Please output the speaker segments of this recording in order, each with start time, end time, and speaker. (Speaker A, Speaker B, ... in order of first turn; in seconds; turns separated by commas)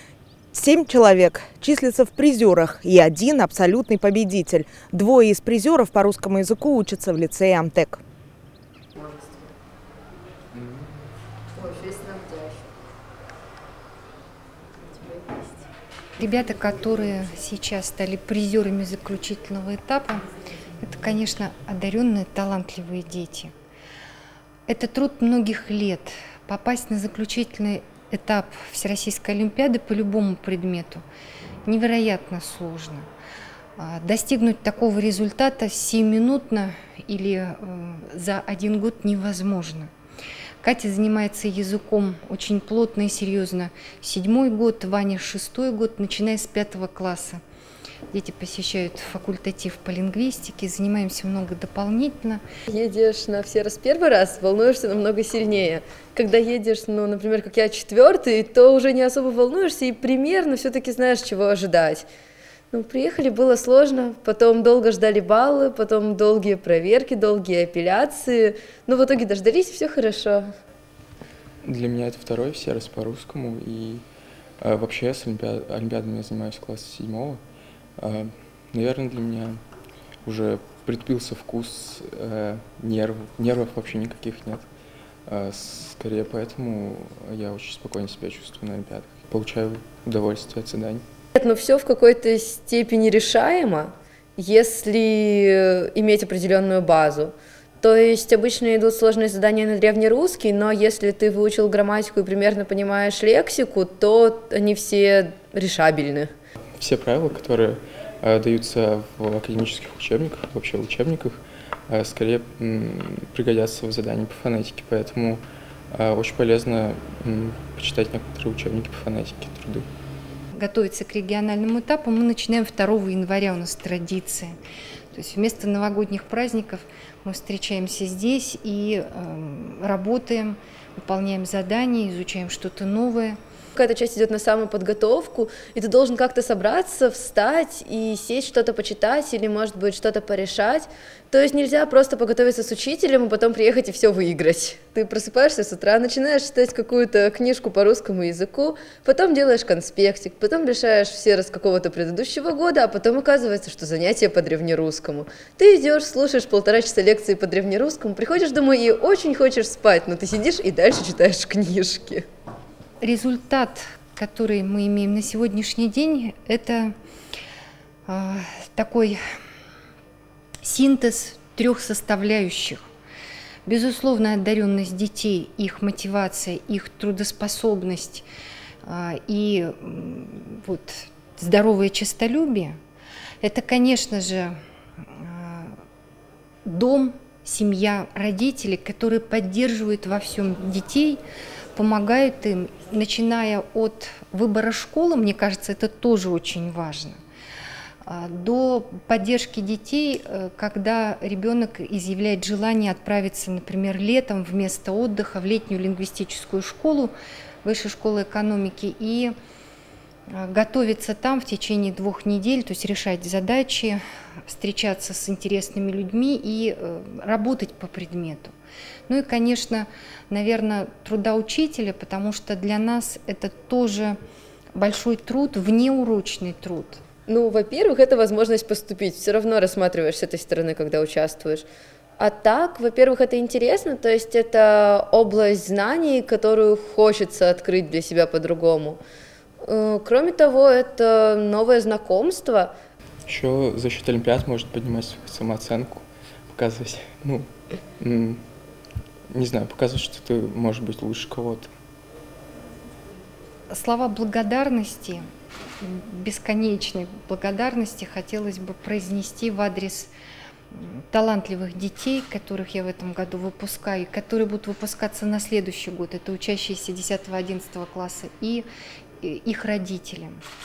Speaker A: 0.5-8.0, Speaker B: 9.0-9.4, Speaker B: 11.6-12.6, Speaker B: 14.9-15.6, Speaker C: 16.2-20.2, Speaker C: 20.8-23.5, Speaker C: 24.7-31.0, Speaker C: 31.6-33.1, Speaker C: 33.8-39.9, Speaker C: 40.6-47.4, Speaker C: 48.1-52.4, Speaker B: 52.7-62.1, Speaker B: 62.7-70.5, Speaker D: 71.6-74.0, Speaker D: 74.6-77.4, Speaker D: 78.0-79.6, Speaker D: 80.2-84.7, Speaker D: 85.3-91.0, Speaker B: 91.4-106.3, Speaker D: 106.8-119.9, Speaker C: 120.5-124.5, Speaker C: 125.1-133.4, Speaker B: 133.8-162.3, Speaker C: 163.0-166.9, Speaker C: 168.1-169.2, Speaker C: 170.6-172.8, Speaker C: 173.7-178.3, Speaker C: 178.8-182.8, Speaker C: 183.4-185.8, Speaker C: 186.7-191.2, Speaker C: 191.8-197.2, Speaker C: 198.1-207.1, Speaker C: 207.6-209.3, Speaker C: 210.3-218.6, Speaker C: 219.1-224.2, Speaker C: 224.8-227.0, Speaker B: 227.3-231.7, Speaker B: 232.2-239.0, Speaker B: 239.6-242.7, Speaker D: 243.3-248.4, Speaker D: 249.3-251.7, Speaker C: 253.7-255.3, Speaker C: 255.8-260.1, Speaker C: 260.7-268.7, Speaker C: 269.2-270.4